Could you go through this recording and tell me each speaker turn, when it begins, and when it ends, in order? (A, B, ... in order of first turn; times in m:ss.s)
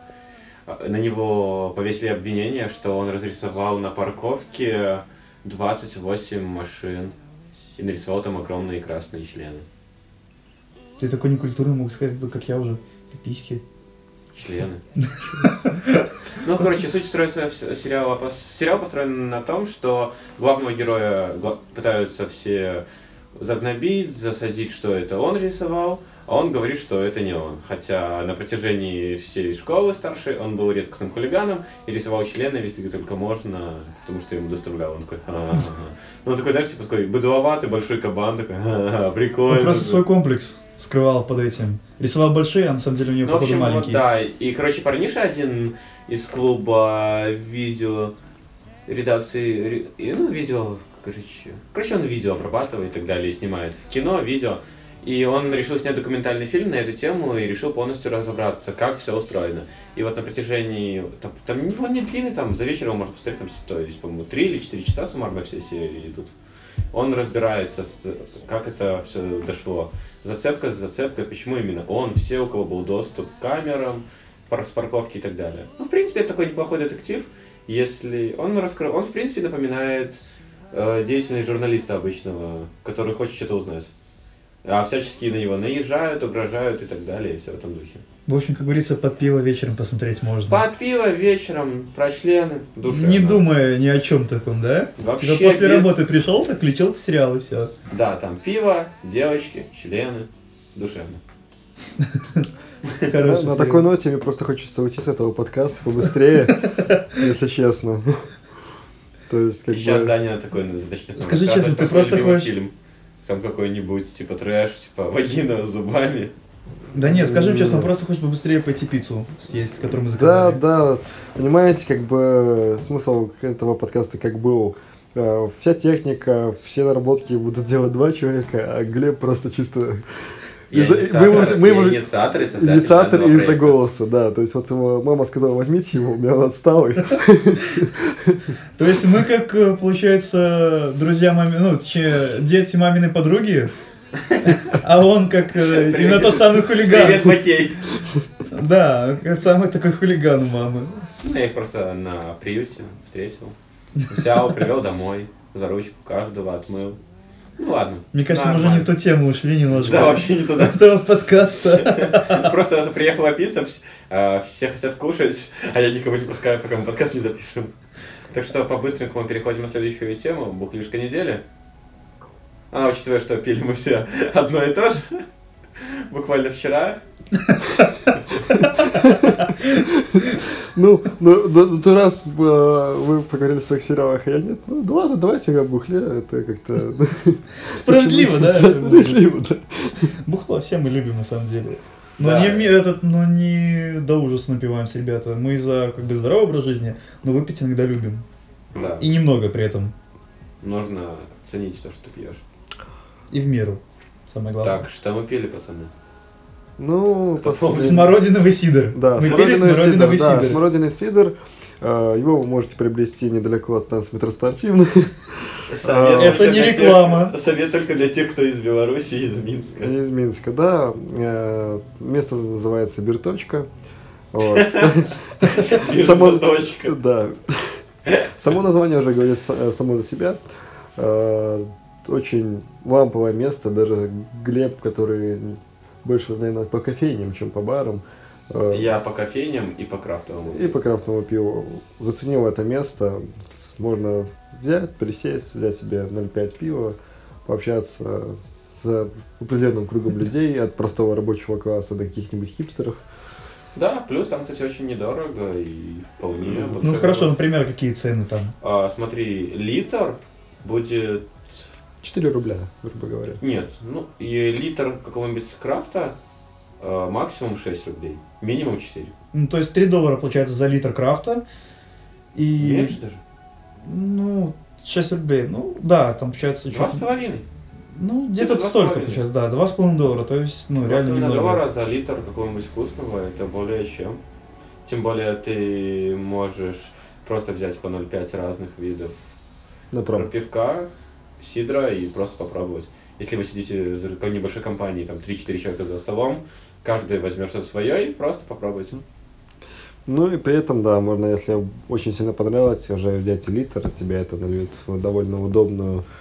0:00.7-0:07.1 A
0:07.8-0:09.6 A
0:11.0-0:13.6 B
0:14.4-0:14.8 A
0:15.0-0:16.1 B
0:16.4-0:22.8 A
0:23.4-0:40.0 A
0:39.5-0:44.0 B
0:43.2-0:48.1 A
0:48.9-1:06.3 A
1:06.9-1:20.2 A
1:20.7-1:23.9 A
1:24.6-1:28.0 A
1:28.3-1:30.6 B
1:30.5-1:33.4 A
1:32.9-1:37.7 B
1:35.0-1:35.9 A
1:37.9-1:41.2 A
1:42.2-1:42.5 B
1:43.0-1:43.9 B
1:43.2-1:48.3 C
1:46.7-1:47.0 B
1:49.3-1:50.1 C
1:49.7-1:52.7 A
1:51.2-1:52.5 B
1:53.2-1:56.3 A
1:56.9-2:00.6 B
1:57.0-1:57.9 C
2:00.2-2:10.0 C
2:10.7-2:13.8 A
2:10.7-2:18.4 C
2:18.8-2:23.7 B
2:24.2-2:24.8 A
2:24.4-2:27.4 B
2:25.7-2:27.9 A
2:28.5-2:31.0 B
2:31.2-2:33.6 A
2:34.0-2:34.2 B
2:34.1-2:37.0 A
2:37.6-2:38.9 A
2:38.1-2:42.5 B
2:39.7-2:40.9 A
2:41.6-2:47.7 A
2:48.3-2:51.4 A
2:52.7-2:55.2 A
2:55.8-2:57.0 A
2:57.4-3:00.4 B
2:58.8-3:10.1 C
3:07.7-3:09.3 B
3:10.3-3:18.2 B
3:12.2-3:12.8 A
3:18.7-3:19.1 A
3:19.0-3:19.9 B
3:20.6-3:22.4 A
3:23.3-3:24.8 B
3:24.6-3:25.9 A
3:26.8-3:28.2 C
3:27.4-3:28.2 A
3:27.8-3:30.6 B
3:28.9-3:36.7 C
3:35.7-3:39.9 A
3:36.1-3:37.3 B
3:39.8-3:43.7 C
3:44.3-3:47.8 C
3:44.5-3:47.0 A
3:48.4-3:50.4 C
3:51.0-3:58.9 C
3:58.7-4:00.8 A
4:00.5-4:13.0 C
4:13.8-4:17.4 A
4:16.8-4:18.6 B
4:18.6-4:21.7 A
4:22.0-4:23.4 C
4:23.4-4:26.2 A
4:26.8-4:29.1 A
4:29.3-4:31.4 B
4:32.4-4:33.0 B
4:32.6-4:33.2 A
4:33.8-4:37.0 B
4:36.7-4:37.4 A
4:37.9-4:41.6 B
4:38.4-4:39.2 A
4:40.8-4:44.2 A
4:44.8-4:49.2 A
4:49.9-4:50.3 C
4:50.1-4:59.0 A
5:00.1-5:06.0 C